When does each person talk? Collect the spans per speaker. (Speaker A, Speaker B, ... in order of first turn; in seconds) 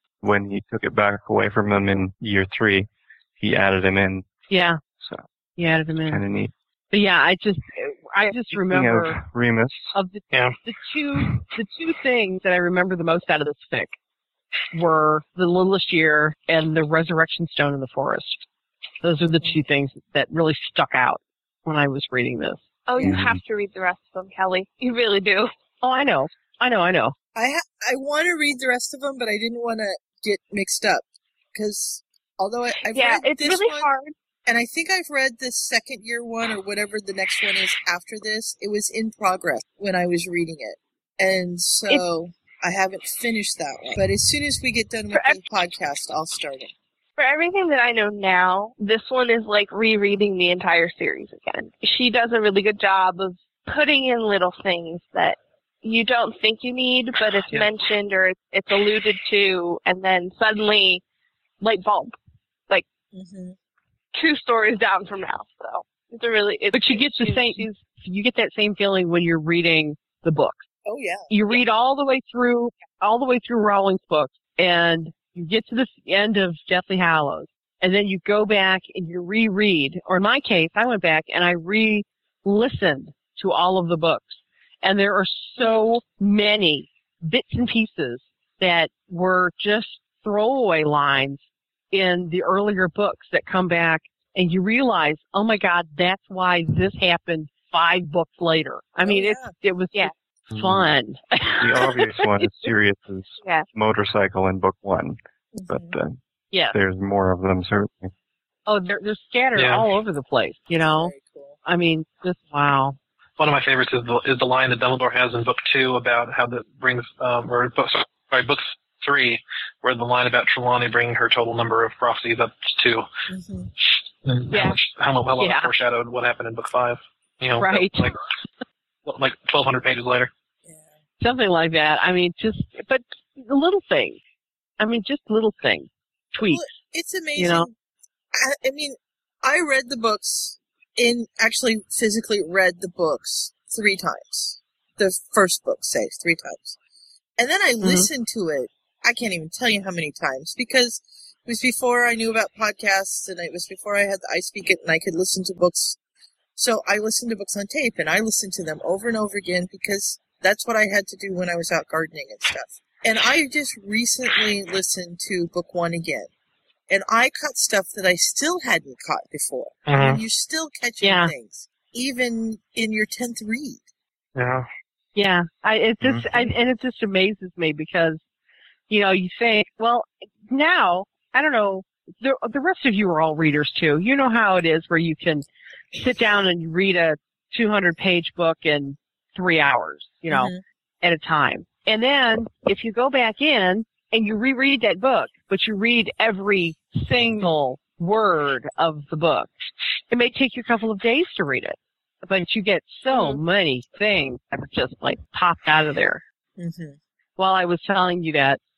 Speaker A: 0.2-2.9, 3.4-4.3, 6.1-6.5, 8.5-9.9, 23.0-23.4, 100.5-100.9, 101.6-105.2, 105.7-106.2, 106.7-108.1, 176.0-176.3
Speaker B: 4.5-4.8, 5.6-6.2, 6.9-9.2, 9.9-14.0, 14.7-18.4, 19.0-22.6, 25.8-27.1, 66.7-70.6, 71.3-102.5, 106.5-106.8, 108.7-111.1, 111.7-113.0, 125.4-125.7, 127.6-128.2, 131.2-134.2, 134.8-136.7, 137.4-137.7, 147.8-148.1, 171.0-171.3, 175.2-178.2, 178.9-199.5, 200.1-206.2, 207.4-208.6
Speaker C: 22.9-25.5, 32.9-34.1, 45.1-45.4, 47.2-61.0, 61.6-62.1, 64.1-67.7, 124.5-124.8
Speaker D: 27.4-33.9, 34.5-46.7, 63.1-63.5, 70.9-71.6, 99.0-99.5, 105.5-106.0, 110.8-111.6, 123.3-123.7, 136.4-137.7, 138.3-146.8, 147.4-156.0, 156.6-166.3, 166.9-173.8, 190.3-190.6, 206.6-207.0
Speaker E: 109.5-109.9, 113.4-123.1, 124.2-128.2, 129.1-130.3, 169.9-170.2, 174.3-174.7